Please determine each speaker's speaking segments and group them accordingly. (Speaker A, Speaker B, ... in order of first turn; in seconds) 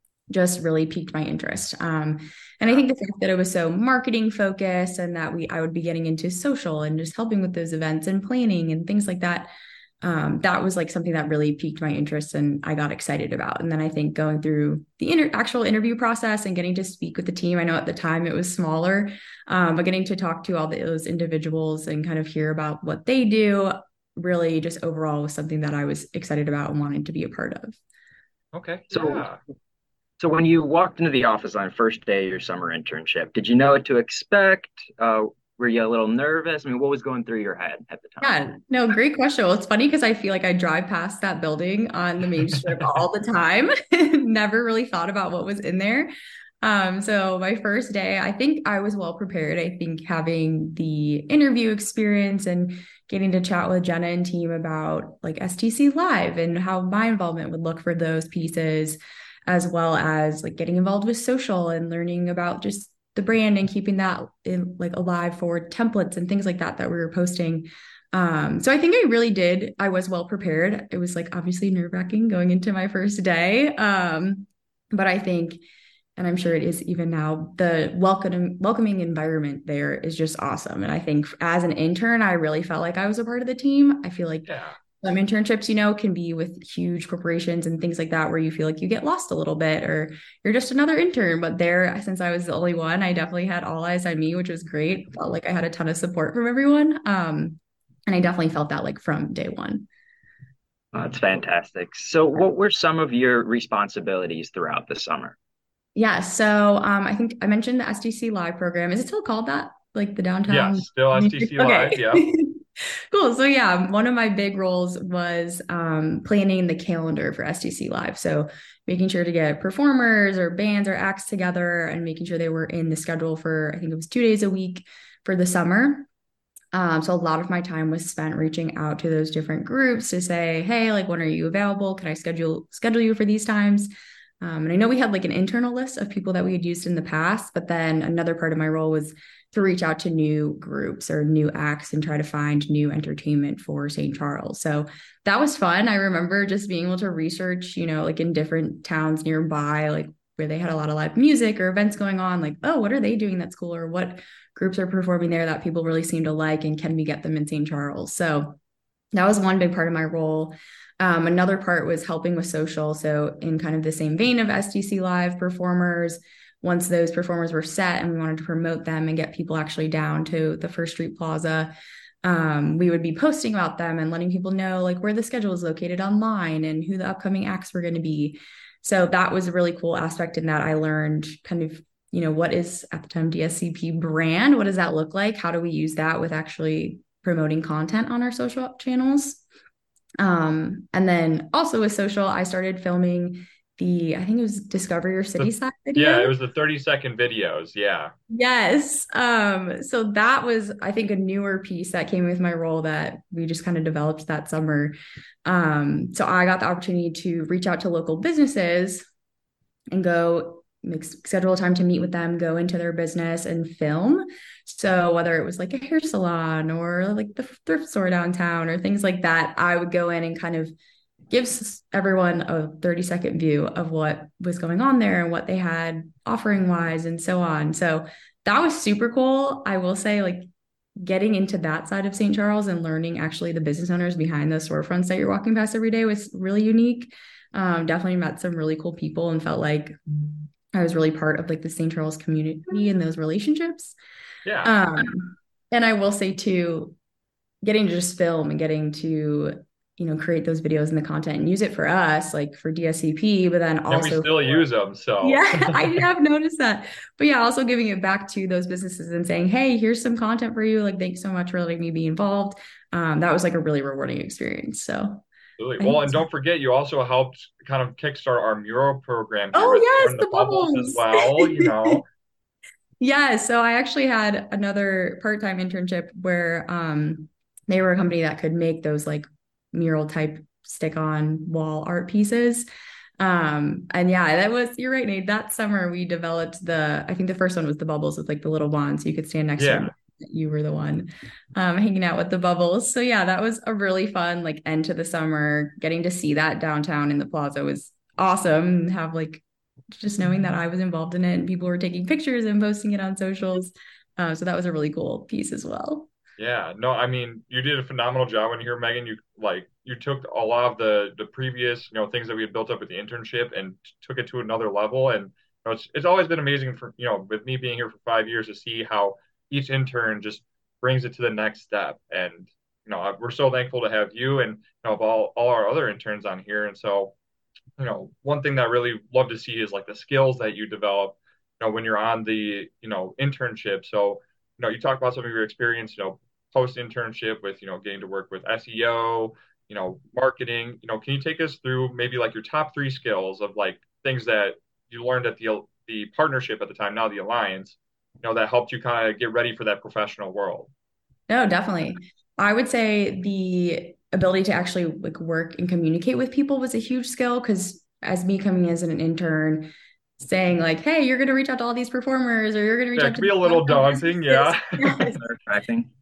Speaker A: 0.3-9.5, 10.0-27.8, 38.2-46.1, 46.6-75.6, 76.2-99.9, 106.0-112.6, 113.1-126.1, 126.7-158.6, 159.1-171.7, 172.2-189.4, 190.2-196.3, 198.3-209.1, 209.9-220.7, 221.3-230.5, 231.0-240.0, 240.7-243.9, 244.7-247.0, 247.6-254.7, 255.2-265.2, 265.8-266.3, 269.6-272.0, 273.0-282.7, 283.2-299.4, 299.9-306.1, 351.3-365.2
Speaker B: 28.5-29.4, 84.5-84.8, 110.5-112.3, 195.4-198.1, 244.4-244.7, 253.9-256.0, 265.6-272.1, 289.6-289.9, 306.4-327.1, 327.8-350.7, 363.0-365.1
Speaker C: 28.9-29.3, 30.2-38.4, 100.9-105.4, 365.2-365.9